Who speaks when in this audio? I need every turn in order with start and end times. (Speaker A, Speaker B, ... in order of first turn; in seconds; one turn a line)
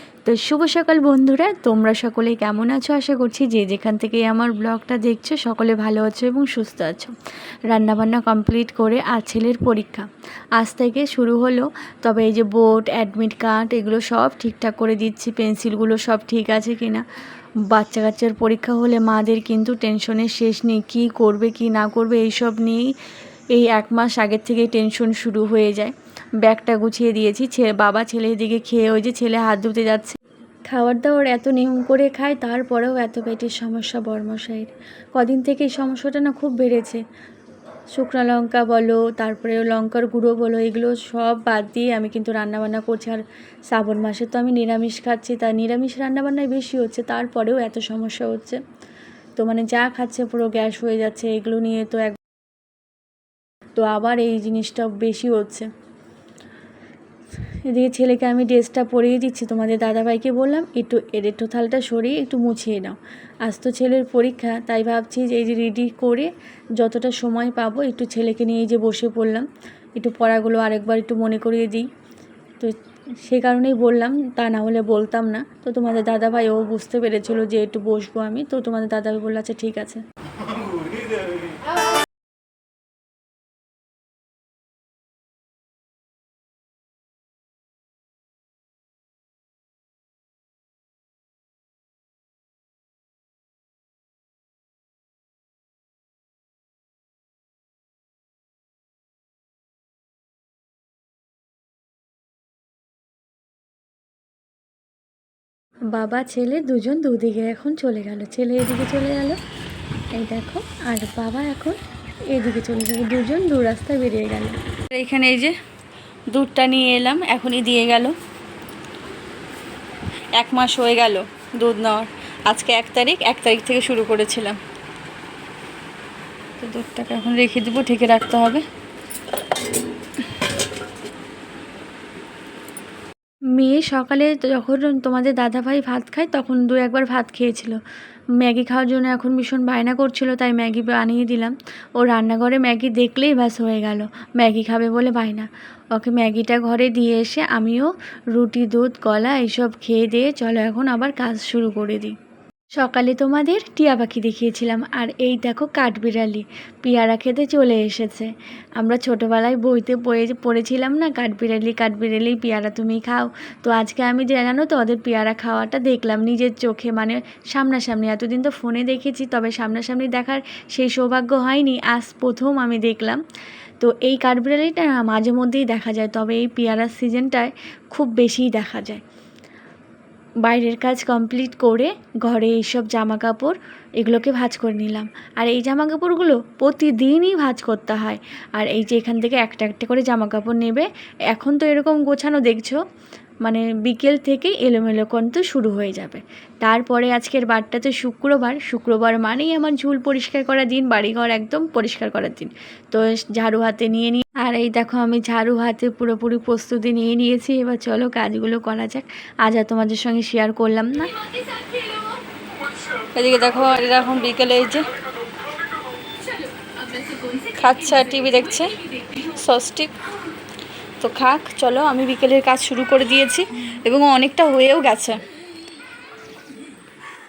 Speaker A: 0.2-7.1
Speaker A: 7.7-10.1
Speaker A: 10.6-17.0
Speaker A: 17.7-22.8
Speaker A: 23.5-37.0
Speaker A: 37.9-48.6
Speaker A: 49.4-52.2
Speaker A: 53.8-55.7
Speaker A: 57.6-71.9
Speaker A: 72.6-80.0
Speaker A: 105.9-109.4
Speaker A: 110.1-111.8
Speaker A: 112.3-115.5
Speaker A: 116.3-118.1
Speaker A: 120.3-124.6
Speaker A: 126.6-128.6
Speaker A: 133.6-137.8
Speaker A: 138.4-152.2
Speaker A: 152.8-173.2
Speaker A: 173.8-179.0
Speaker A: 180.4-192.8
Speaker A: 193.4-211.1
Speaker A: 213.1-214.8
Speaker A: 217.4-219.9
Speaker A: 221.0-225.2